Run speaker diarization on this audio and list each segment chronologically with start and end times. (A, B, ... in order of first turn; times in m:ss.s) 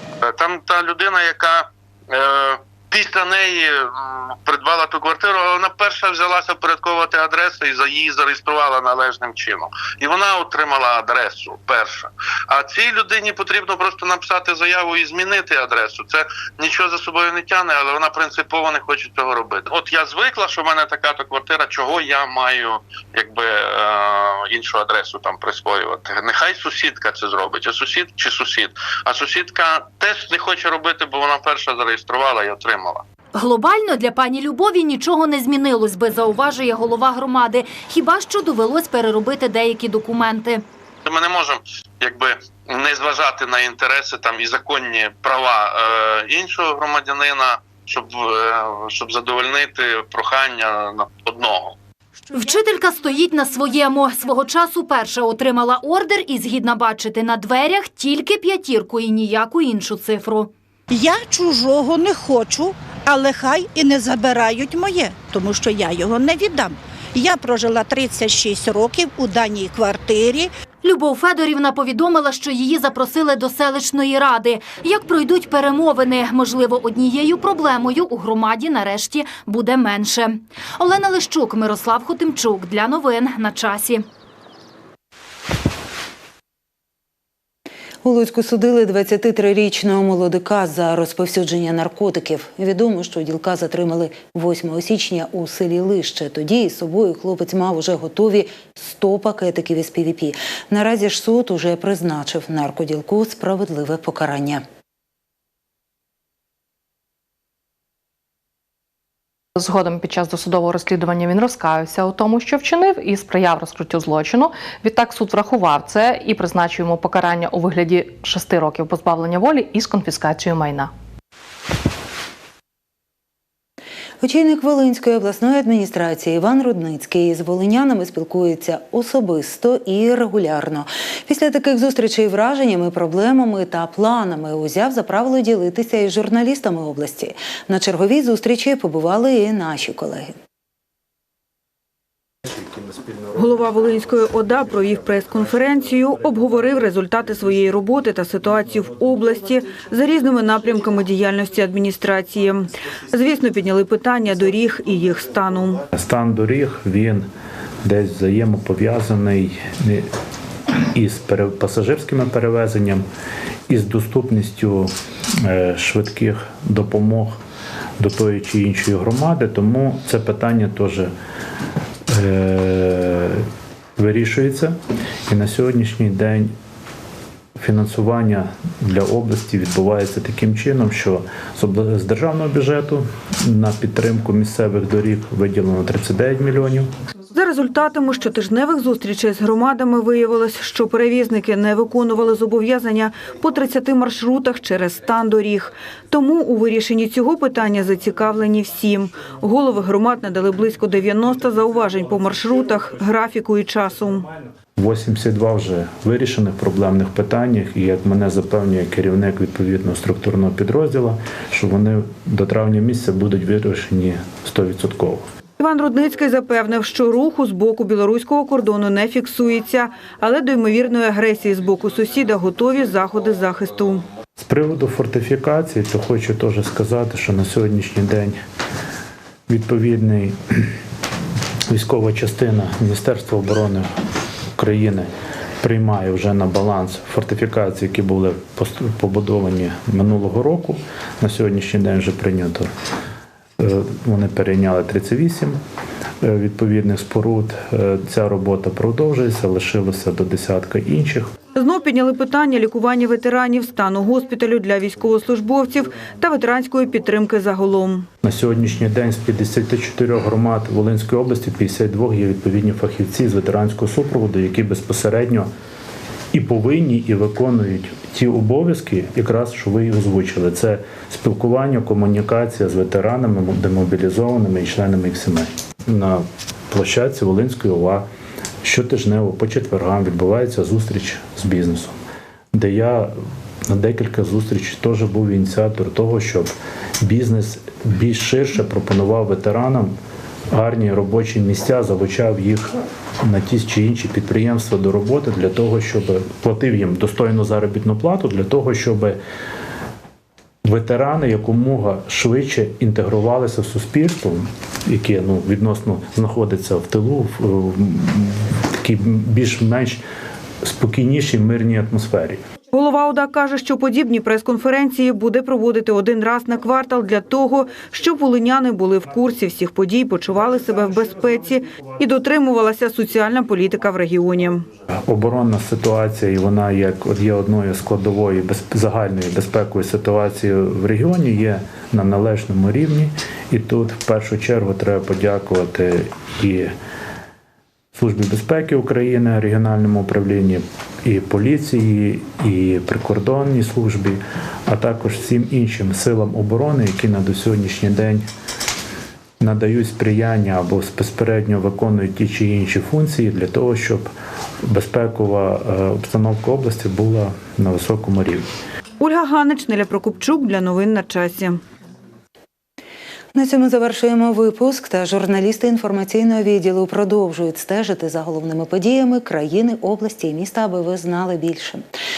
0:00.2-0:33.0 A
0:33.3-0:40.6 B
0:41.0-0:51.7 A
0:52.3-1:00.5 B
1:00.9-1:10.5 C
1:10.8-1:24.0 B
1:28.0-1:44.6 D
1:49.6-2:00.9 E
2:04.2-2:20.3 D
2:23.3-2:35.8 F
2:35.9-2:37.3 G
2:37.8-2:40.1 G
2:40.9-2:43.0 G
2:43.7-2:47.4 G
2:48.0-2:51.1 G
2:52.1-2:53.4 G
2:54.0-2:56.5 G
2:57.6-3:06.9 G
3:07.3-3:24.3 F
3:24.8-3:35.2 G
3:35.6-3:44.0 F
3:44.4-3:48.4 G
3:49.5-3:50.7 G
3:51.7-3:53.9 G
3:54.6-3:55.1 G
3:55.6-4:02.7 G
4:03.6-4:05.6 G
4:06.2-4:11.3 G
4:11.5-4:18.1 F
4:18.2-4:25.5 G
4:26.3-4:38.1 G
4:38.6-4:42.0 G
4:42.5-4:43.1 G
4:43.7-4:49.9 G
4:50.5-4:59.2 G
5:00.6-5:10.0 G
5:10.6-5:12.4 G
5:12.7-5:24.6 F
5:25.0-5:36.7 G
5:37.9-5:48.2 G
5:49.4-5:54.1 G
5:54.6-5:58.4 G
5:59.0-6:01.6 F
6:03.3-6:11.8 D